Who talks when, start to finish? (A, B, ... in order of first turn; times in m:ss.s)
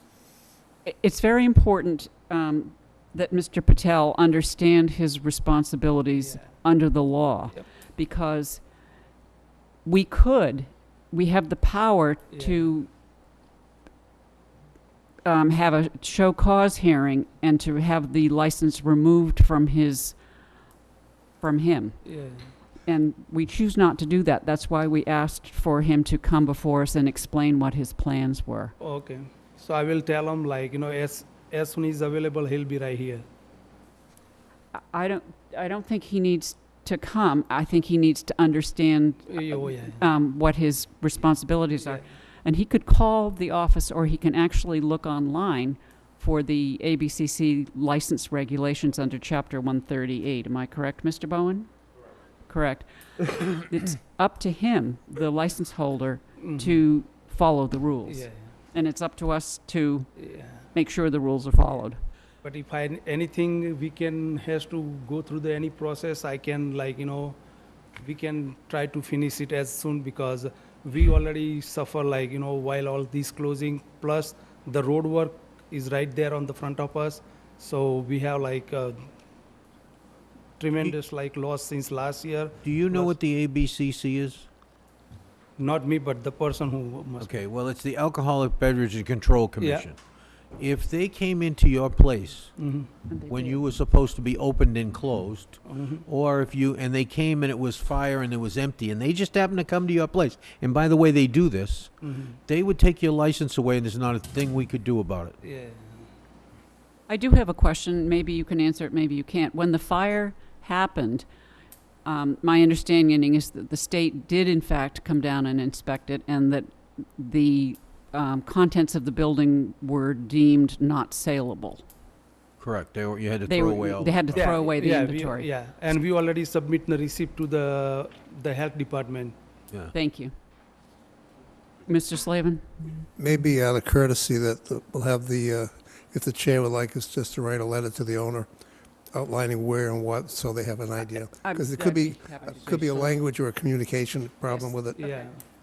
0:00.8-0:08.6 A
0:06.2-0:06.5 B
0:09.8-0:12.9 A
0:12.3-0:12.6 B
0:15.2-0:20.2 A
0:21.4-0:22.0 A
0:22.0-0:22.5 B
0:22.8-0:28.8 A
0:28.8-0:33.2 B
0:34.7-0:51.7 A
0:39.3-0:40.0 B
0:52.5-1:02.0 A
0:56.4-0:56.8 B
0:58.0-0:58.5 B
1:00.2-1:00.7 B
1:02.4-1:07.4 B
1:08.0-1:19.1 B
1:20.6-1:23.2 B
1:22.6-1:24.5 C
1:25.6-1:27.4 B
1:27.2-1:30.0 C
1:29.6-1:29.9 B
1:30.5-1:32.6 C
1:32.6-1:32.9 B
1:33.1-1:33.6 A
1:33.3-1:45.4 C
1:35.7-1:36.0 B
1:42.0-1:42.4 B
1:45.4-1:46.1 B
1:47.1-1:51.2 A
1:52.0-2:01.8 A
2:02.6-2:04.6 C
2:03.5-2:05.5 A
2:04.3-2:09.4 B
2:09.9-2:10.3 A
2:11.9-2:12.7 A
2:13.2-2:18.5 D
2:19.1-2:25.0 D
2:21.4-2:23.2 A
2:24.5-2:25.3 A
2:25.0-2:25.4 B